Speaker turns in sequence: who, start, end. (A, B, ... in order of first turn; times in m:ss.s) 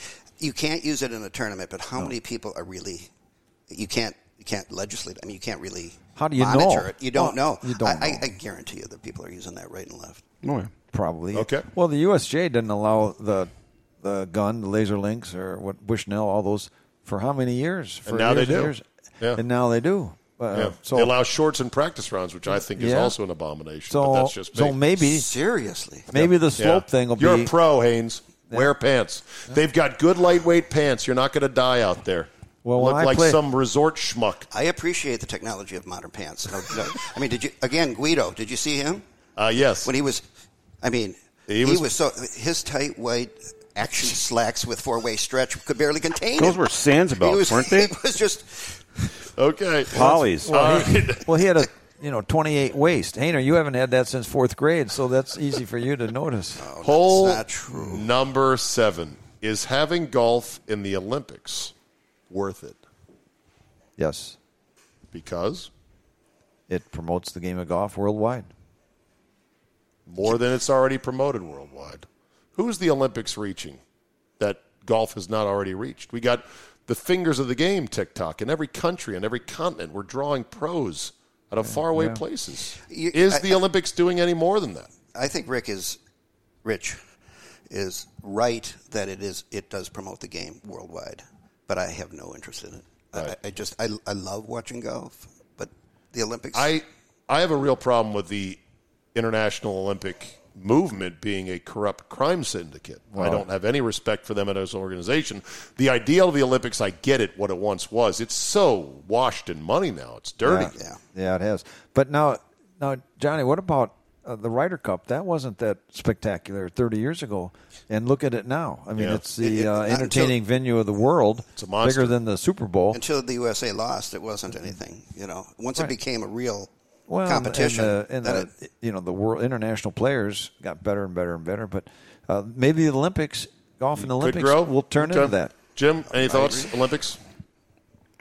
0:00.4-0:03.1 A
0:03.7-0:10.2 A
0:06.2-0:08.2 B
0:10.4-0:10.7 C
0:10.9-0:18.8 B
0:11.3-0:11.7 D
0:18.1-0:19.4 D
0:19.4-0:21.1 B
0:20.5-0:24.8 D
0:22.5-0:23.2 B
0:23.9-0:25.3 B
0:25.0-0:26.1 A
0:26.1-0:27.5 B
0:26.2-0:34.5 D
0:32.6-0:33.4 B
0:34.5-0:39.0 A
0:39.4-0:39.9 D
0:39.8-0:40.2 A
0:40.8-0:49.1 A
0:41.5-0:41.9 D
0:46.4-0:48.0 C
0:49.4-0:51.4 D
0:49.9-0:50.6 C
0:50.0-0:56.7 B
0:56.6-0:58.1 A
0:56.8-1:01.7 D
1:02.3-1:02.8 D
1:04.0-1:04.4 B
1:05.1-1:05.7 D
1:06.7-1:08.5 B
1:10.1-1:13.8 D
1:14.4-1:24.9 D
1:21.6-1:22.2 B
1:22.9-1:23.6 A
1:25.1-1:26.0 A
1:26.6-1:27.0 A
1:27.7-1:36.7 A
1:36.5-1:38.6 D
1:39.2-1:50.8 D
1:43.1-1:43.5 B
1:50.4-2:03.0 B
1:59.0-1:59.2 D
1:59.4-2:00.4 A
2:01.6-2:02.2 D
2:02.9-2:06.7 A
2:07.1-2:15.6 B
2:07.2-2:08.5 A
2:14.0-2:17.2 D
2:16.1-2:16.7 A